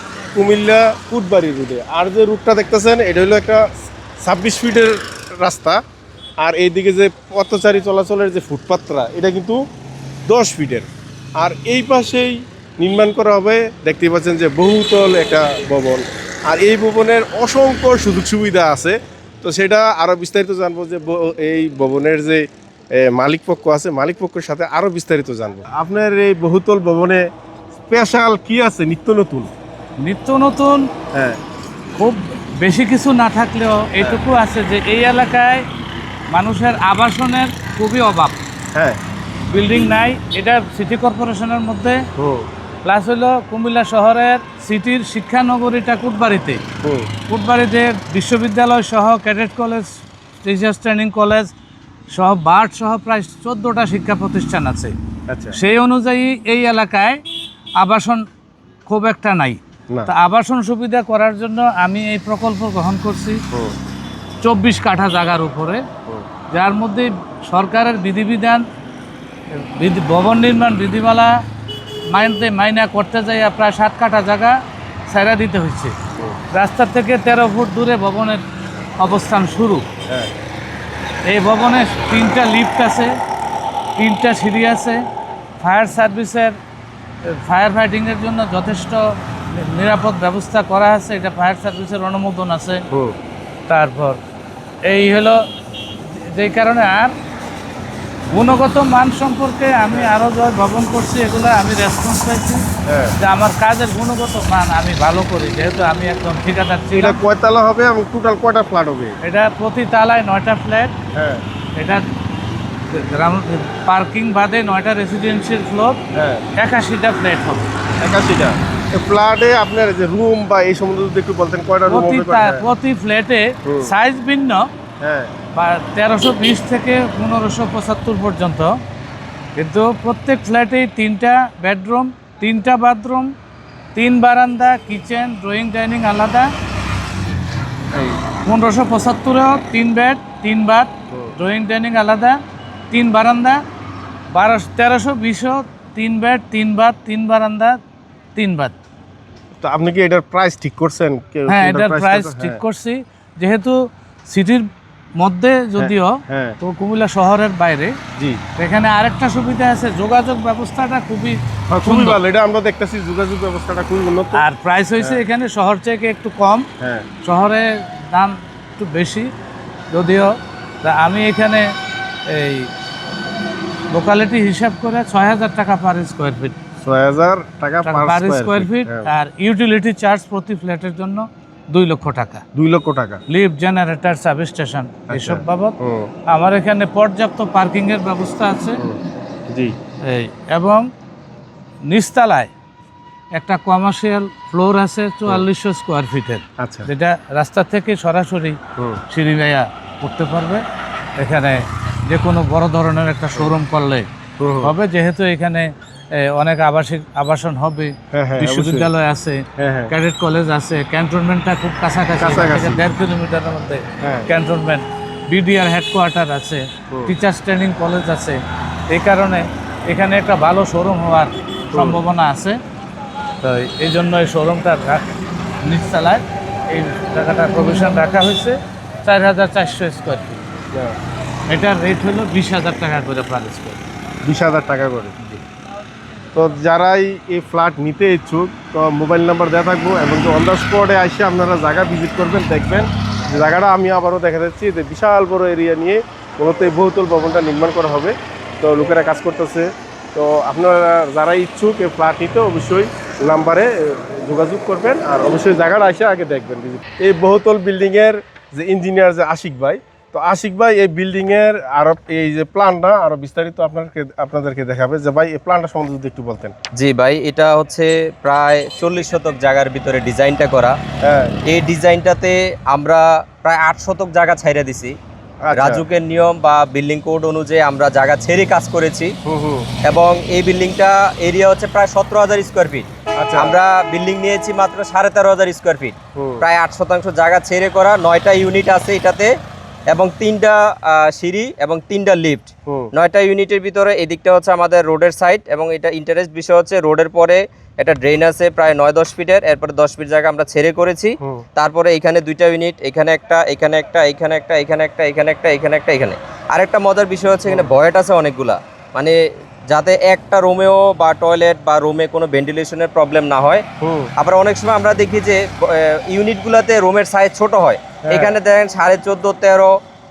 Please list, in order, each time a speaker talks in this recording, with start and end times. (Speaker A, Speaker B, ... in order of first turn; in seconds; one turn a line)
Speaker A: 0.3-3.7
Speaker A: 4.2-5.8
Speaker A: 6.4-9.6
Speaker A: 10.3-22.4
Speaker A: 23.0-27.2
Speaker A: 27.9-29.5
Speaker B: 30.0-30.9
Speaker A: 31.1-31.4
Speaker B: 32.0-35.6
Speaker B: 36.3-38.4
Speaker B: 39.5-42.0
Speaker A: 42.2-42.5
Speaker B: 42.9-46.6
Speaker A: 46.8-47.1
Speaker B: 47.3-49.9
Speaker B: 50.4-51.5
Speaker B: 52.1-55.0
Speaker A: 55.3-55.6
Speaker B: 55.5-57.2
Speaker B: 57.8-58.2
Speaker B: 58.9-63.4
Speaker B: 64.4-65.8
Speaker B: 66.5-68.6
Speaker B: 69.5-71.4
Speaker B: 72.1-74.6
Speaker B: 75.1-76.0
Speaker B: 76.5-78.4
Speaker B: 79.0-79.9
Speaker B: 81.3-83.2
Speaker B: 84.0-85.0
Speaker B: 85.6-86.5
Speaker B: 87.3-92.9
Speaker B: 93.7-94.2
Speaker B: 94.9-95.4
Speaker B: 96.1-97.1
Speaker B: 98.3-102.7
Speaker A: 102.9-103.2
Speaker B: 103.2-107.2
Speaker A: 106.9-109.2
Speaker B: 109.2-110.9
Speaker A: 111.1-111.4
Speaker B: 111.8-112.0
Speaker B: 112.9-116.0
Speaker A: 116.1-116.5
Speaker B: 116.6-117.7
Speaker A: 118.0-122.7
Speaker B: 121.9-124.7
Speaker A: 123.7-123.9
Speaker A: 125.0-125.3
Speaker B: 125.6-128.7
Speaker B: 129.6-133.3
Speaker B: 133.9-136.5
Speaker A: 137.9-138.2
Speaker B: 138.4-142.4
Speaker B: 142.9-143.6
Speaker B: 144.3-147.8
Speaker B: 148.4-148.7
Speaker A: 149.6-152.6
Speaker B: 151.5-153.8
Speaker B: 154.3-154.7
Speaker B: 155.2-157.9
Speaker A: 155.8-156.6
Speaker B: 158.6-162.2
Speaker A: 161.7-164.4
Speaker B: 164.3-166.7
Speaker A: 165.0-165.2
Speaker A: 166.8-167.1
Speaker B: 167.2-169.3
Speaker B: 169.9-170.3
Speaker B: 170.8-171.7
Speaker B: 172.3-172.7
Speaker B: 173.9-176.6
Speaker A: 176.8-179.1
Speaker B: 177.8-182.4
Speaker A: 182.6-183.2
Speaker B: 183.3-185.8
Speaker A: 185.1-186.1
Speaker B: 186.3-188.8
Speaker B: 190.1-190.9
Speaker B: 191.9-192.5
Speaker B: 193.4-198.6
Speaker A: 196.6-196.9
Speaker A: 198.8-199.0
Speaker B: 199.1-200.6
Speaker B: 201.2-204.1
Speaker A: 204.4-204.7
Speaker B: 204.6-222.6
Speaker A: 208.1-208.9
Speaker A: 209.6-209.9
Speaker A: 212.2-212.8
Speaker A: 214.0-214.3
Speaker A: 221.7-222.0
Speaker B: 223.4-225.1
Speaker B: 225.7-230.4
Speaker B: 231.5-233.8
Speaker A: 234.2-235.2
Speaker A: 236.3-266.6
Speaker C: 266.8-270.8
Speaker A: 271.0-271.4
Speaker C: 271.5-274.9
Speaker A: 275.4-275.9
Speaker C: 275.5-279.1
Speaker A: 279.3-279.7
Speaker C: 279.8-289.3
Speaker A: 283.2-283.6
Speaker A: 286.2-286.4
Speaker C: 289.9-309.2
Speaker A: 307.5-307.7
Speaker C: 309.7-313.6
Speaker A: 313.8-314.1
Speaker C: 314.2-319.7
Speaker A: 318.1-318.4